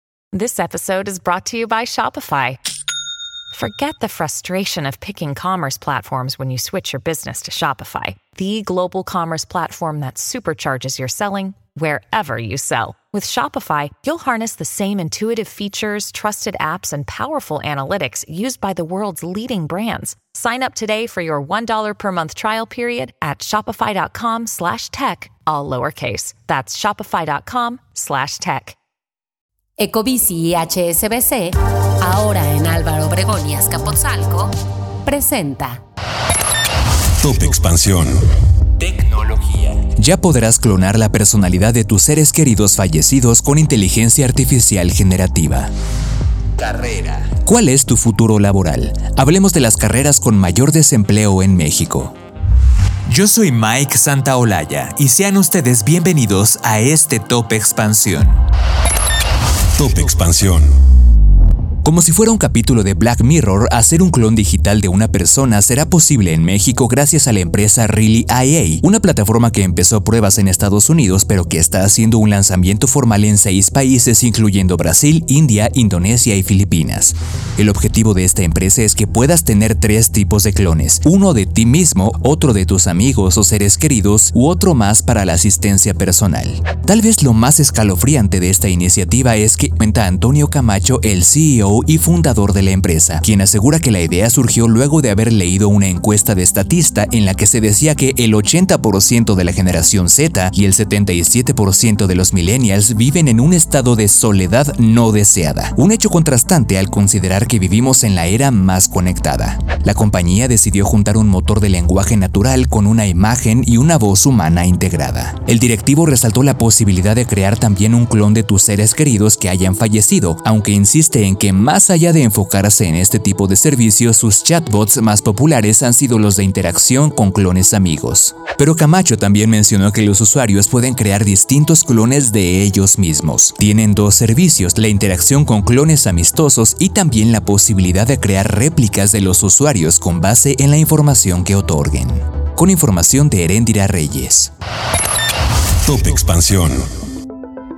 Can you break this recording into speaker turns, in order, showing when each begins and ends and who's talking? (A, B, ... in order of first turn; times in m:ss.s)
0:00.3-0:02.6 A
0:03.5-0:28.8 A
0:29.8-0:35.8 B
0:37.2-0:38.3 C
0:38.8-0:45.7 D
0:46.6-0:52.1 D
0:53.1-0:58.4 D
0:59.8-1:00.7 C
1:01.8-2:24.5 D
2:25.8-2:26.9 C